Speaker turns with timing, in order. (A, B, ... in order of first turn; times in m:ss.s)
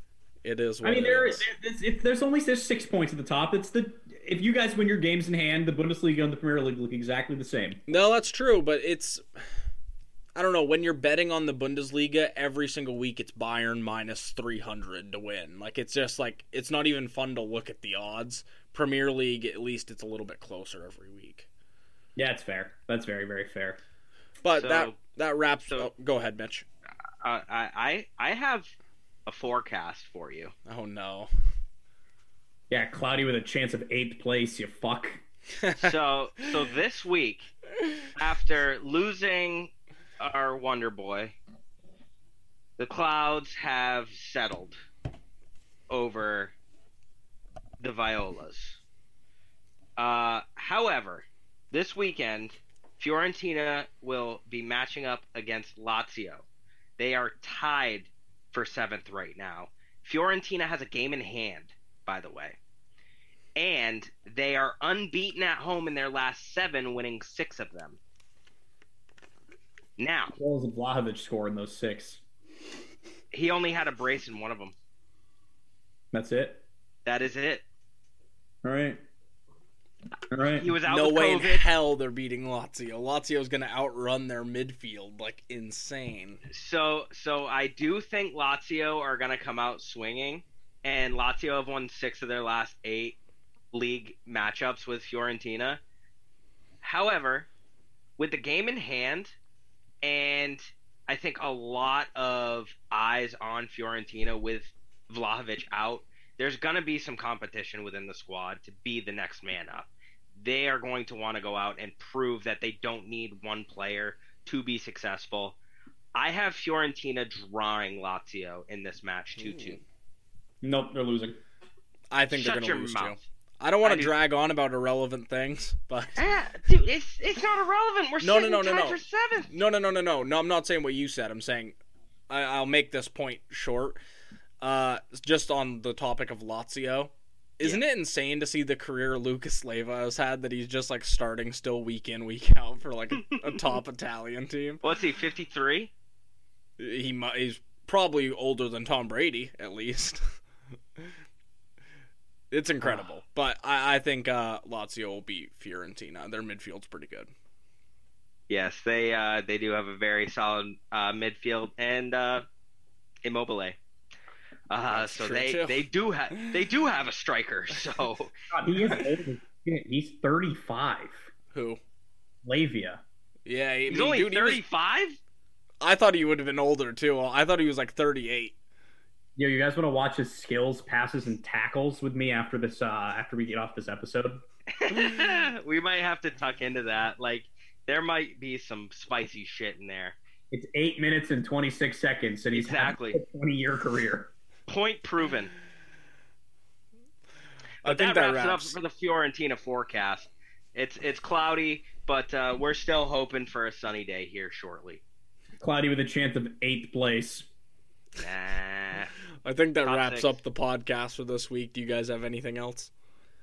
0:00.4-0:01.5 A
0:00.8-0:07.8 B
0:07.9-0:09.2 A
0:10.4-0:21.5 A
0:22.2-0:23.8 B
0:24.4-0:26.6 A
0:24.6-0:25.0 C
0:27.2-0:28.7 C
0:29.3-0:30.5 C
0:30.7-0:31.3 A
0:32.7-0:35.2 B
0:35.6-0:35.9 A
0:35.8-0:37.5 C
0:38.1-0:41.4 C
0:42.8-0:44.8 C
0:45.9-0:46.5 C
0:47.8-0:48.8 C
0:50.0-0:56.4 C
0:57.0-1:02.6 C
1:03.6-1:08.0 C
1:10.0-1:10.4 C
1:10.4-1:12.2 B
1:13.3-1:14.7 C
1:16.1-1:16.6 B
1:17.1-1:17.6 C
1:18.6-1:19.0 B
1:20.3-1:20.7 B
1:20.6-1:21.7 C
1:20.9-1:26.4 A
1:26.5-1:33.2 C
1:33.7-1:35.8 C
1:36.8-1:37.5 C
1:38.2-1:39.4 C
1:40.0-1:55.6 C
1:56.2-1:59.8 C
1:59.4-1:59.8 A
2:00.6-2:01.4 B
2:02.1-2:06.3 A
2:02.3-2:03.2 C
2:03.8-2:04.1 C
2:06.2-2:09.5 C
2:08.2-2:11.8 A
2:12.3-2:14.0 A
2:14.6-2:24.8 A
2:24.8-2:25.9 C
2:26.8-2:30.3 A
2:32.5-2:37.3 A
2:38.5-2:42.4 C
2:43.2-2:43.8 C
2:44.7-2:48.3 C
2:44.9-2:46.6 A
2:48.5-2:51.3 B
2:51.5-2:51.8 A
2:52.4-2:53.0 B
2:53.5-2:54.6 A
2:53.9-2:55.2 C
2:55.8-2:58.6 A
2:59.4-3:04.4 B
3:04.8-3:10.2 C
3:10.5-3:14.3 B
3:12.5-3:13.2 C
3:14.7-3:15.5 C
3:17.8-3:25.0 C
3:17.8-3:18.8 A
3:25.6-3:27.5 B
3:28.2-3:29.1 C
3:29.4-3:32.9 A
3:29.8-3:30.3 C